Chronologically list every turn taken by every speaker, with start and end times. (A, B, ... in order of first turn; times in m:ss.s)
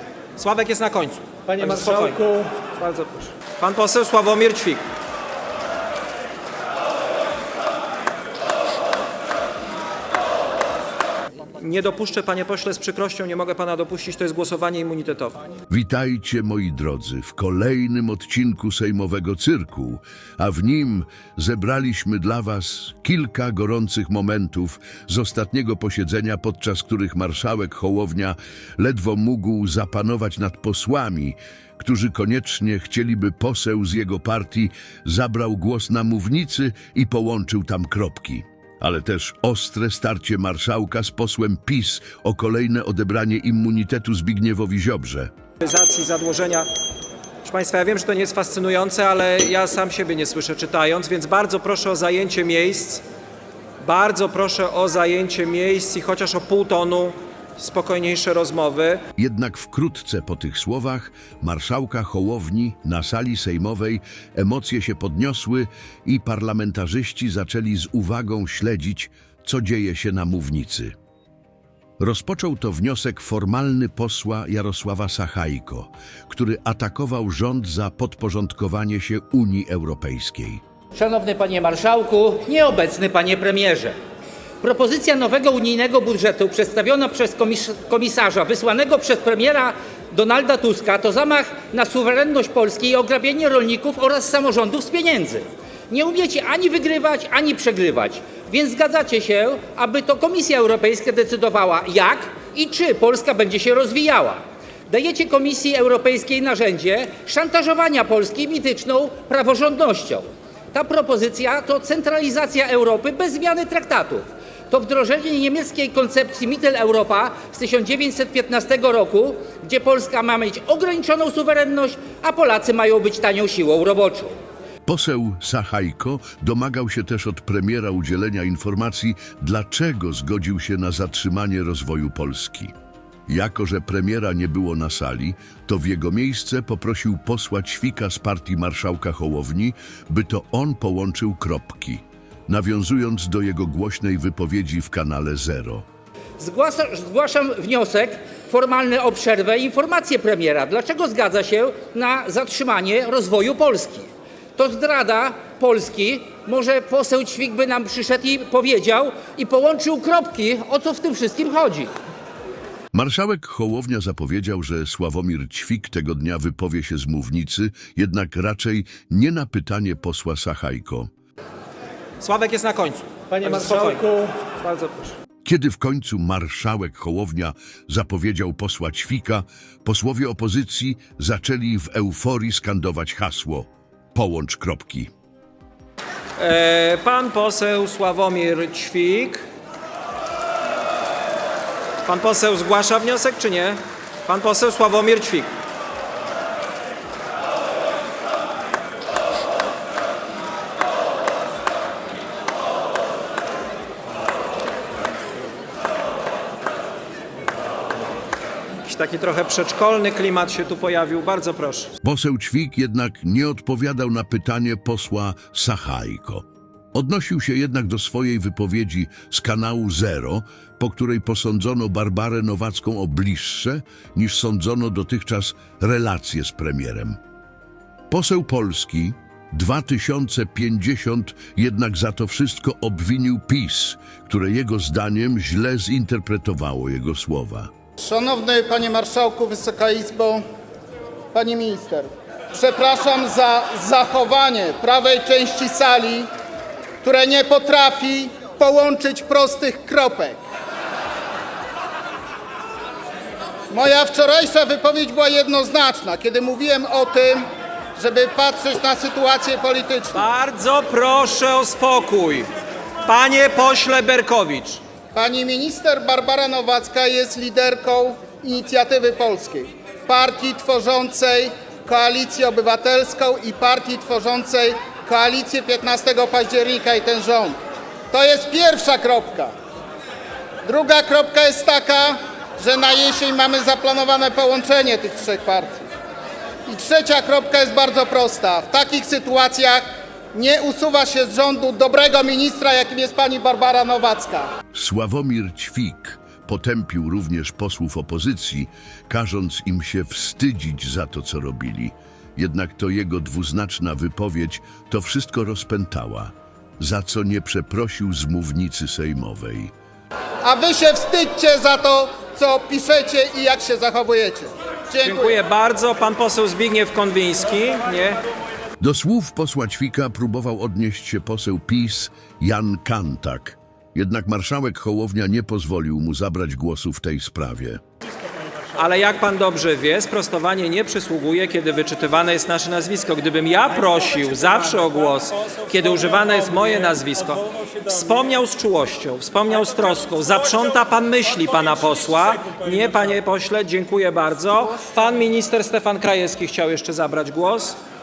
0:00.4-0:04.8 A
0:11.5-0:15.4 A
0:15.7-0:45.3 B
0:45.6-0:46.7 A
0:47.4-0:53.0 A
0:53.8-0:59.0 A
0:59.2-1:10.9 B
1:12.0-1:20.6 B
1:20.9-1:24.0 C
1:24.6-2:04.4 C
2:04.8-2:12.7 B
2:13.3-2:25.8 B
2:26.4-2:41.9 C
2:42.9-2:51.1 B
2:52.2-2:55.2 A
2:55.4-3:05.1 B
3:06.4-3:09.4 A
3:12.0-3:15.5 A
3:28.8-3:31.9 A
3:32.0-3:47.2 B
3:48.1-3:57.7 B
3:58.0-4:00.4 D
4:01.3-4:06.3 D
4:07.0-4:10.4 D
4:13.7-4:20.3 D
4:20.1-4:22.5 A
4:23.0-4:24.8 A
4:25.1-4:37.6 D
4:38.1-4:39.5 D
4:40.6-4:45.8 D
4:46.7-4:54.5 D
4:54.7-5:09.7 B
5:10.4-5:15.4 D
5:15.0-5:18.2 A
5:18.8-5:27.8 B
5:28.7-5:47.8 A